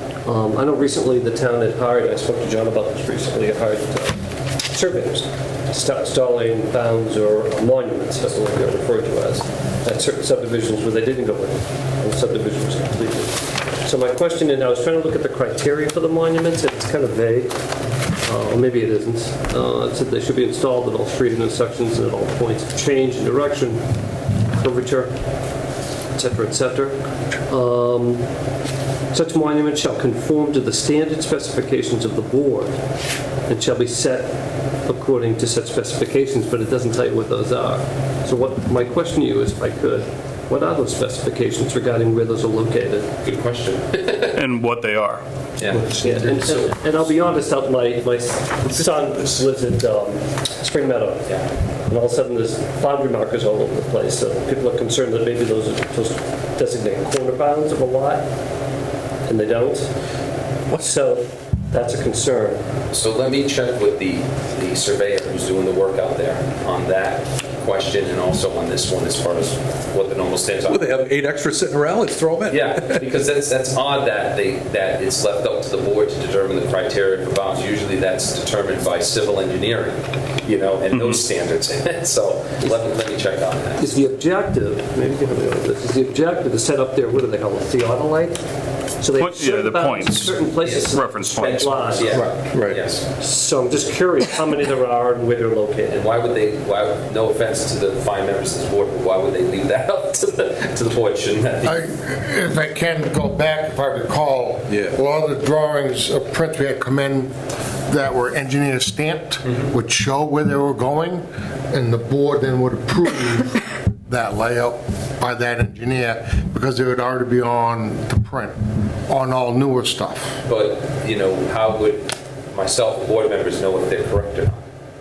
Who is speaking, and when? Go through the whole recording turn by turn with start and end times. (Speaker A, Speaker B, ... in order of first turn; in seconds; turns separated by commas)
Speaker A: 0.2-17.5, Speaker A: 18.2-23.8, Speaker A: 24.5-25.1, Speaker A: 26.1-28.3, Speaker A: 29.1-32.8, Speaker A: 33.5-43.1, Speaker B: 43.2-44.4, Speaker C: 44.3-45.2, Speaker B: 45.6-46.0, Speaker A: 45.9-51.3, Speaker D: 46.0-46.5, Speaker A: 51.9-58.2, Speaker A: 59.2-59.9, Speaker A: 60.7-62.6, Speaker B: 62.9-71.0, Speaker D: 70.7-73.0, Speaker B: 72.5-83.9, Speaker C: 80.9-81.2, Speaker A: 83.8-88.4, Speaker A: 89.0-92.3, Speaker C: 89.2-92.2, Speaker B: 90.6-93.0, Speaker D: 92.1-92.8, Speaker A: 93.2-96.0, Speaker B: 95.9-101.8, Speaker E: 101.6-107.3, Speaker E: 107.9-120.4, Speaker B: 120.5-124.6